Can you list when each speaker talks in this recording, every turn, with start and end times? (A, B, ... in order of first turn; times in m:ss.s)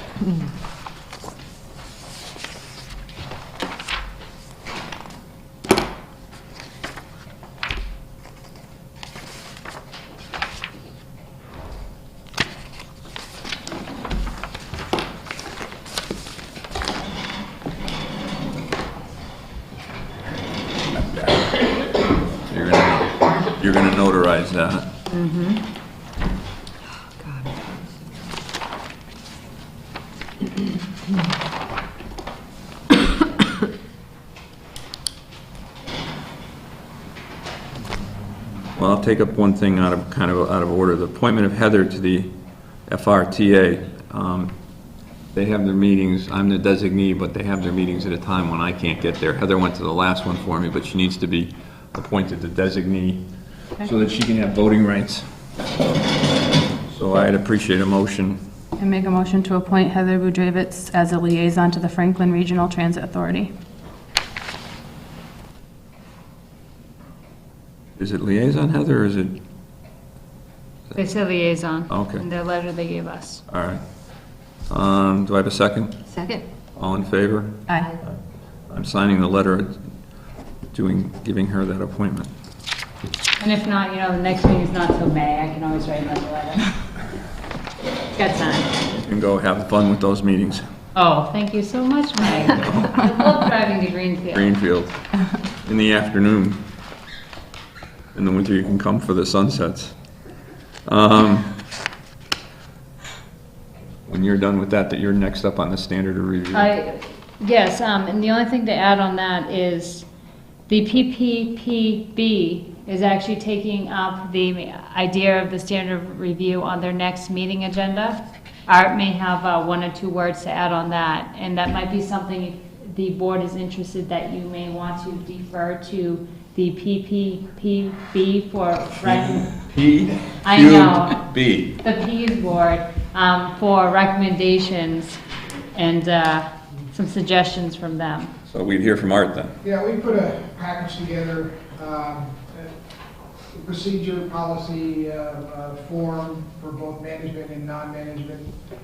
0:20.9-0:21.5 A
0:22.5-0:24.9 A
0:25.1-0:25.6 B
0:38.8-0:44.6 A
0:45.3-0:53.2 A
0:53.8-0:55.3 A
0:56.9-0:58.4 A
0:58.8-1:03.5 C
1:08.0-1:09.4 A
1:11.0-1:13.4 B
1:11.9-1:12.2 A
1:13.5-1:13.8 A
1:14.7-1:16.0 A
1:16.8-1:18.1 A
1:18.7-1:19.8 A
1:20.7-1:22.3 A
1:23.4-1:26.7 B
1:28.1-1:28.8 B
1:28.9-1:30.6 A
1:31.0-1:34.6 B
1:34.3-1:35.0 A
1:35.6-1:36.6 A
1:38.1-1:40.0 A
1:40.8-1:41.5 A
1:44.1-1:46.7 A
1:46.5-1:50.1 B
1:50.7-2:09.5 B
2:09.0-2:11.8 A
2:10.4-2:11.3 B
2:11.8-2:15.2 B
2:15.7-2:18.3 B
2:18.5-2:19.5 A
2:19.6-2:22.7 D
2:23.5-2:28.5 D